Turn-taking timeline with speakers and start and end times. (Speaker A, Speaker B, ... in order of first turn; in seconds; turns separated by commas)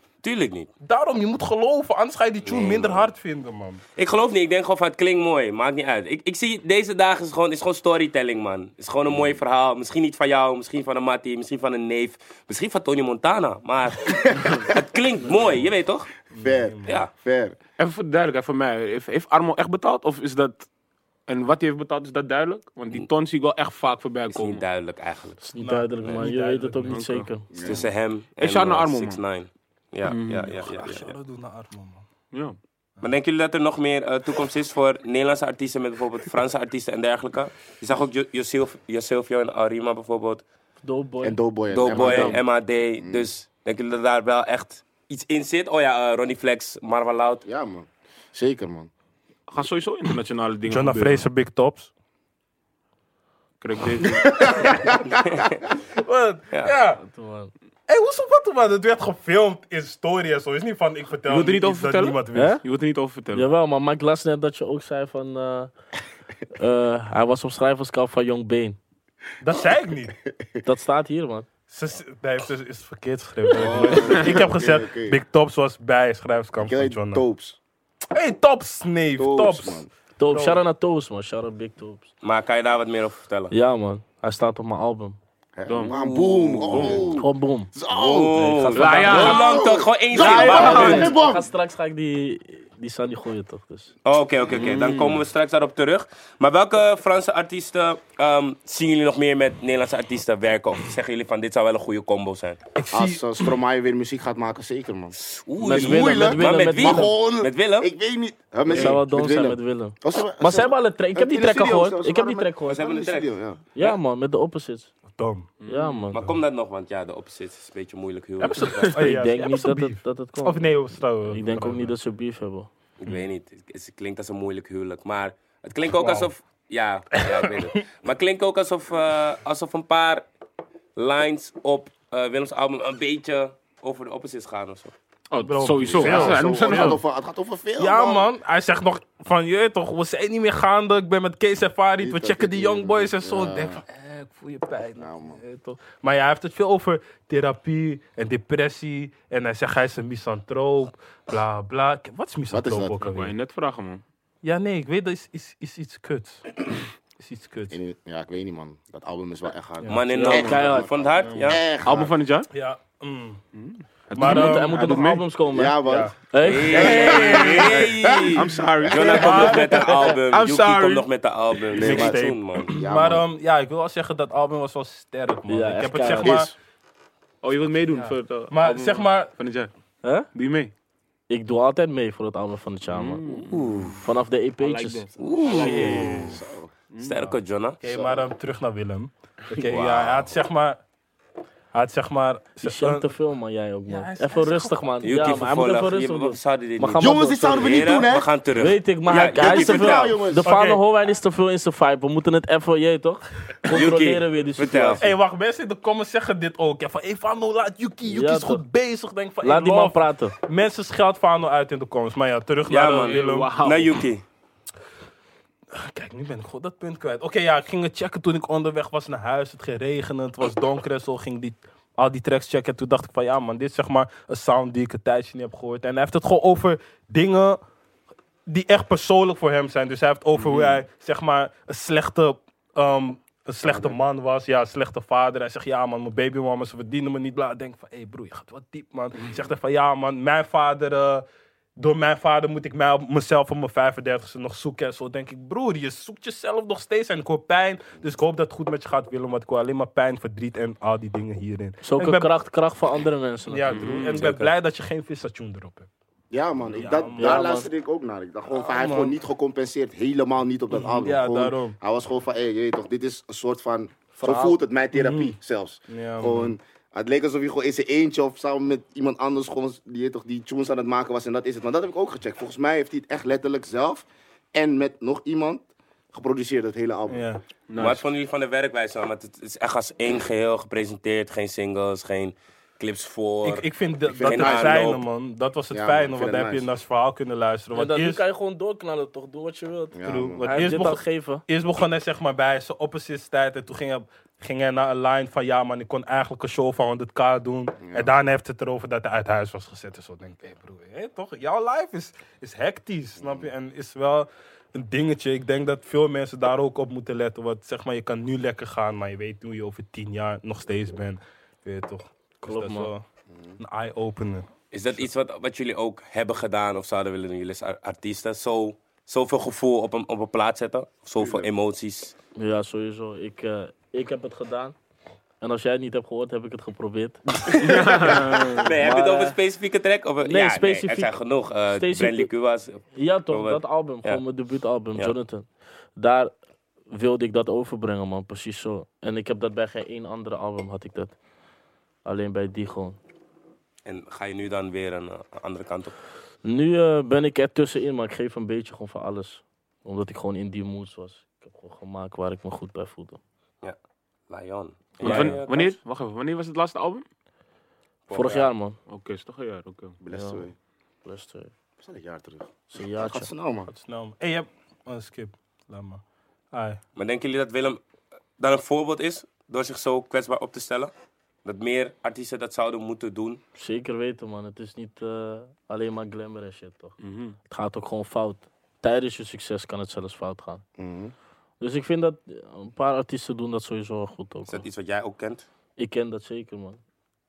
Speaker A: 0.2-0.7, Speaker B: 0.8-3.8, Speaker A: 2.4-3.1, Speaker A: 4.0-16.1, Speaker C: 14.3-14.6, Speaker B: 16.4-17.0, Speaker C: 16.4-17.6, Speaker D: 17.8-20.7, Speaker D: 21.3-24.6, Speaker A: 24.3-25.4, Speaker E: 25.4-27.5, Speaker B: 25.6-27.0, Speaker D: 26.9-27.3, Speaker C: 27.5-27.9, Speaker A: 27.6-31.1, Speaker D: 28.4-29.2, Speaker D: 30.1-30.5, Speaker B: 30.5-32.1, Speaker D: 32.3-32.6, Speaker A: 33.0-40.4, Speaker E: 40.8-41.4, Speaker C: 41.2-42.4, Speaker A: 41.7-47.4, Speaker D: 41.9-42.4, Speaker C: 43.0-43.3, Speaker C: 47.5-48.9, Speaker D: 49.5-51.2, Speaker B: 50.7-51.9, Speaker D: 53.6-54.6, Speaker B: 54.2-55.0, Speaker C: 54.4-55.4, Speaker A: 55.2-55.6, Speaker B: 56.0-57.0, Speaker E: 57.0-57.5, Speaker B: 57.9-62.6, Speaker D: 61.3-63.5, Speaker E: 62.3-62.6, Speaker E: 63.3-65.7, Speaker E: 66.5-68.8, Speaker B: 69.4-70.2, Speaker C: 70.3-70.6, Speaker E: 70.6-71.5, Speaker B: 71.7-77.2, Speaker C: 73.5-75.2, Speaker C: 76.6-77.6, Speaker B: 78.1-80.6, Speaker C: 79.2-79.9, Speaker E: 80.2-82.1, Speaker A: 82.2-83.5, Speaker E: 83.5-85.2, Speaker C: 85.6-91.5, Speaker D: 85.7-86.0, Speaker A: 85.9-87.1, Speaker D: 86.6-87.1, Speaker E: 87.1-87.7, Speaker A: 87.9-91.2, Speaker E: 88.3-89.5, Speaker D: 88.8-89.5, Speaker D: 90.2-91.1, Speaker E: 90.2-93.9, Speaker A: 94.0-102.6, Speaker D: 94.5-95.2, Speaker B: 102.8-103.6, Speaker C: 102.9-105.2, Speaker A: 105.3-107.9, Speaker E: 105.6-107.2, Speaker C: 105.7-113.6, Speaker E: 108.7-112.9, Speaker A: 112.7-114.0, Speaker E: 113.7-114.9, Speaker B: 115.1-115.5, Speaker D: 115.6-116.1, Speaker E: 115.7-116.2, Speaker A: 116.1-119.1, Speaker D: 118.4-119.0, Speaker B: 118.8-121.9, Speaker E: 119.0-122.7, Speaker A: 123.0-130.2, Speaker B: 125.9-126.3, Speaker B: 127.2-127.8, Speaker A: 131.0-134.9, Speaker D: 135.3-137.0, Speaker B: 135.4-137.0, Speaker C: 135.8-138.3, Speaker B: 137.8-153.3, Speaker C: 142.0-143.8, Speaker C: 145.0-145.4, Speaker C: 152.5-153.1, Speaker D: 153.1-154.0, Speaker B: 154.4-157.8, Speaker C: 157.7-162.2, Speaker A: 159.9-161.6, Speaker E: 160.1-161.0, Speaker D: 160.2-160.6, Speaker D: 161.8-162.5, Speaker B: 162.5-163.4, Speaker D: 163.5-165.2, Speaker B: 164.2-165.1, Speaker E: 164.2-167.3, Speaker C: 165.5-166.1, Speaker B: 165.8-166.2, Speaker A: 166.4-172.7, Speaker D: 166.7-171.1, Speaker C: 166.7-169.2, Speaker B: 169.0-169.9, Speaker C: 171.7-173.2, Speaker B: 171.7-176.5, Speaker E: 175.5-176.5, Speaker C: 176.2-176.5, Speaker D: 177.4-179.7, Speaker B: 177.9-179.3, Speaker E: 180.0-180.3, Speaker D: 180.3-180.7, Speaker E: 181.3-183.2, Speaker D: 182.9-184.0, Speaker A: 183.5-184.0, Speaker E: 184.0-185.1, Speaker D: 184.6-186.4, Speaker A: 185.2-186.4, Speaker C: 185.6-186.7, Speaker B: 185.7-186.1, Speaker D: 186.9-187.2, Speaker A: 187.0-187.8, Speaker B: 187.8-190.8, Speaker C: 187.9-188.3, Speaker A: 189.7-190.3, Speaker B: 191.7-193.1, Speaker E: 192.6-197.8, Speaker B: 193.9-195.4, Speaker A: 195.0-200.2, Speaker C: 197.0-198.3, Speaker E: 198.6-205.1, Speaker C: 199.3-200.5, Speaker B: 200.4-200.8, Speaker A: 203.7-205.0, Speaker B: 205.0-213.6, Speaker E: 208.1-208.6, Speaker E: 209.4-210.3, Speaker A: 212.7-214.2, Speaker D: 213.0-214.0, Speaker B: 215.7-227.6, Speaker B: 228.5-241.2, Speaker D: 230.3-230.8, Speaker C: 233.6-233.9, Speaker B: 241.8-252.3, Speaker E: 251.8-254.1, Speaker B: 253.5-255.9, Speaker D: 253.7-254.3, Speaker A: 254.1-254.5, Speaker C: 256.3-277.3, Speaker B: 256.8-257.4, Speaker E: 257.1-257.7, Speaker B: 258.6-259.1, Speaker B: 260.7-261.8, Speaker E: 264.2-264.6, Speaker B: 264.9-265.4, Speaker B: 265.9-266.6, Speaker B: 277.1-277.4, Speaker D: 277.7-278.0, Speaker A: 277.8-283.7, Speaker B: 283.4-288.2, Speaker C: 284.1-284.8, Speaker A: 284.2-285.0, Speaker C: 285.7-286.7, Speaker E: 287.7-291.4, Speaker C: 289.9-290.5, Speaker B: 290.0-313.0, Speaker C: 297.8-298.1, Speaker C: 303.2-303.5, Speaker E: 312.4-312.9, Speaker B: 313.6-315.1, Speaker A: 314.7-322.1, Speaker C: 321.2-321.5, Speaker E: 322.4-324.8, Speaker E: 325.4-329.4, Speaker A: 327.5-334.2, Speaker D: 327.5-328.6, Speaker E: 330.2-331.1, Speaker E: 331.7-332.3, Speaker E: 332.9-336.3, Speaker E: 336.9-341.1, Speaker E: 342.1-343.0, Speaker A: 343.9-346.0, Speaker E: 346.4-353.2, Speaker A: 354.3-355.8, Speaker D: 355.0-357.1, Speaker A: 358.1-358.5, Speaker E: 358.1-358.8, Speaker D: 358.9-360.0, Speaker C: 360.0-360.6, Speaker E: 360.1-360.4, Speaker E: 361.1-361.5, Speaker C: 361.8-363.7, Speaker E: 362.7-363.3, Speaker B: 363.7-366.0, Speaker B: 366.5-366.8, Speaker A: 367.0-367.8, Speaker A: 368.4-370.9, Speaker A: 371.4-373.4, Speaker E: 373.6-376.9, Speaker D: 377.0-377.4, Speaker E: 377.5-380.6, Speaker C: 380.8-381.1, Speaker E: 381.6-384.6, Speaker A: 384.5-385.5, Speaker E: 385.8-386.8